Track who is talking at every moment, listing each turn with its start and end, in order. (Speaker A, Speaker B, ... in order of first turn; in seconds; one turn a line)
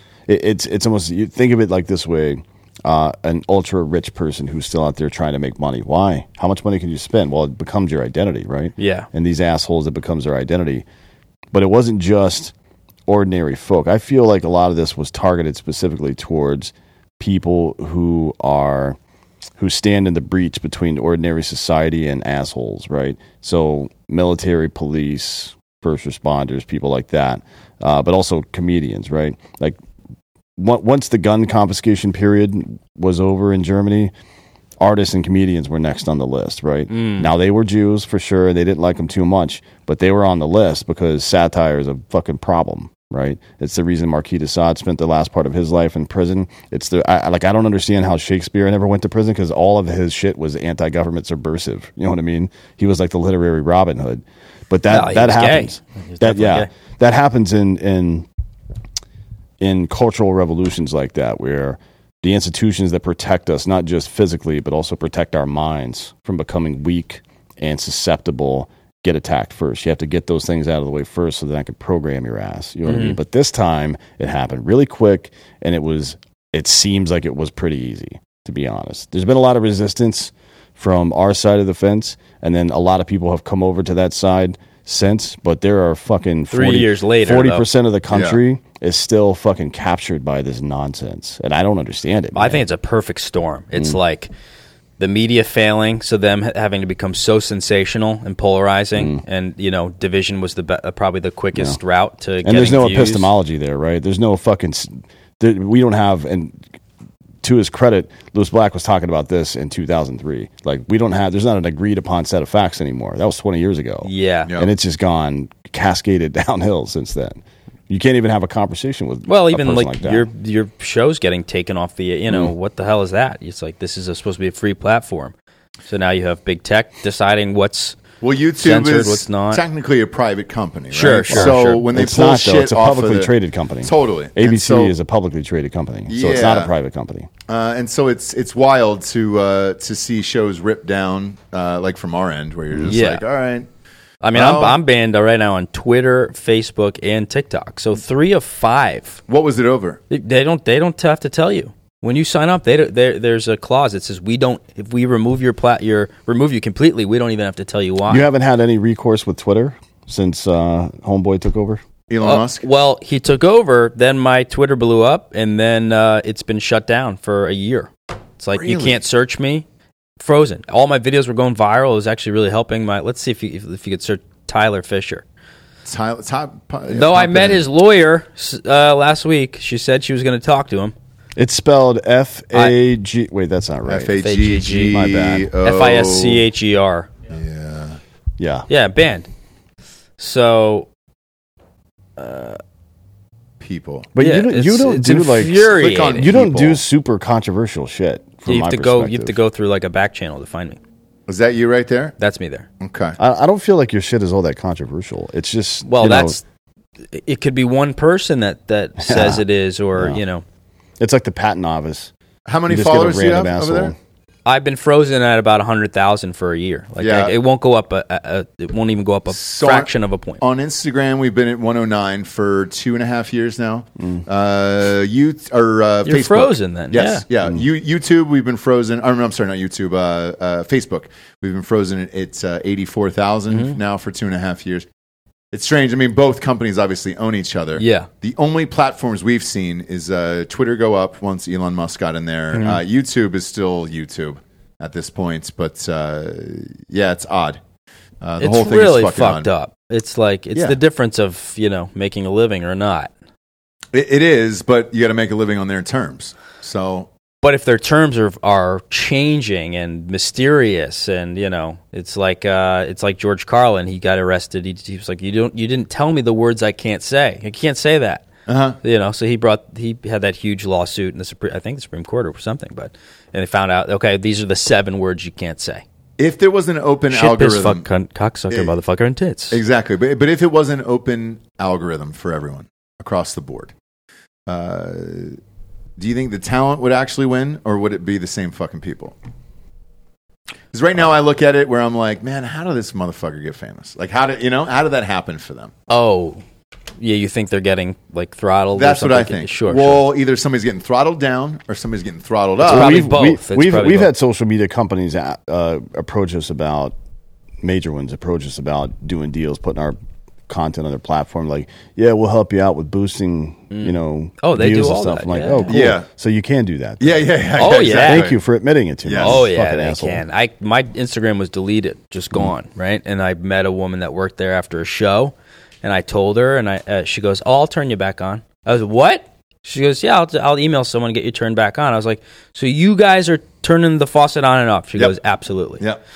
Speaker A: 0.3-10.8
Speaker B: 8.8-9.1
Speaker A: 11.5-12.5
Speaker A: 13.1-19.0
Speaker A: 19.6-29.8
Speaker A: 30.6-34.1
Speaker A: 34.8-58.3
Speaker B: 36.9-37.3
Speaker B: 54.9-56.7
Speaker A: 59.6-92.6
Speaker B: 72.8-73.2
Speaker B: 86.5-87.7
Speaker C: 88.1-88.4
Speaker B: 92.3-94.3
Speaker B: 95.0-103.3
Speaker A: 99.0-99.2
Speaker A: 102.4-106.6
Speaker A: 107.4-120.3
Speaker B: 114.0-114.5
Speaker B: 119.3-125.3
Speaker B: 125.9-128.0
Speaker C: 128.2-133.3
Speaker B: 128.6-129.6
Speaker B: 130.9-131.8
Speaker A: 131.3-137.3
Speaker C: 133.8-134.9
Speaker C: 136.1-136.7
Speaker C: 137.5-143.7
Speaker B: 142.9-143.2
Speaker B: 144.2-149.2
Speaker C: 144.3-144.8
Speaker C: 149.3-150.0
Speaker B: 150.1-158.2
Speaker A: 158.1-161.8
Speaker C: 162.1-162.7
Speaker B: 162.2-169.6
Speaker C: 168.5-169.0
Speaker B: 170.2-175.2
Speaker C: 175.8-177.7
Speaker B: 176.9-180.9
Speaker A: 181.3-184.2
Speaker C: 183.9-186.4
Speaker B: 184.2-187.1
Speaker A: 184.9-185.5
Speaker C: 187.3-188.0
Speaker A: 188.4-188.7
Speaker B: 188.7-189.3
Speaker B: 190.2-190.9
Speaker B: 192.2-192.6
Speaker C: 193.6-194.1
Speaker A: 194.1-199.4
Speaker B: 194.2-196.3
Speaker C: 195.5-196.8
Speaker B: 198.4-200.8
Speaker C: 201.3-202.1
Speaker B: 202.2-202.7
Speaker C: 202.8-203.2
Speaker A: 203.2-206.4
Speaker B: 205.8-206.4
Speaker B: 207.1-210.4
Speaker A: 209.0-209.4
Speaker A: 209.9-210.2
Speaker A: 211.0-212.1
Speaker C: 212.4-213.9
Speaker A: 212.7-213.9
Speaker B: 214.4-220.4
Speaker C: 217.0-217.3
Speaker C: 219.3-234.8
Speaker B: 226.0-227.2
Speaker B: 233.5-233.8
Speaker C: 235.5-247.6
Speaker B: 237.8-238.1
Speaker B: 242.5-242.8
Speaker C: 248.2-249.5
Speaker B: 248.4-253.1
Speaker C: 253.9-257.1
Speaker B: 257.4-268.3
Speaker C: 268.5-268.8
Speaker B: 268.8-275.8
Speaker C: 276.2-277.9
Speaker B: 277.1-279.6
Speaker C: 279.5-283.7
Speaker C: 284.5-285.4
Speaker C: 286.0-289.1
Speaker C: 290.7-295.7
Speaker B: 295.9-296.4
Speaker B: 297.0-300.1
Speaker C: 298.8-303.0
Speaker B: 302.6-304.1
Speaker A: 302.6-306.9
Speaker A: 307.6-310.0
Speaker A: 310.5-320.2
Speaker B: 313.7-315.8
Speaker C: 315.7-316.1
Speaker C: 317.0-318.4
Speaker B: 317.6-318.3
Speaker C: 319.0-319.4
Speaker B: 319.2-335.8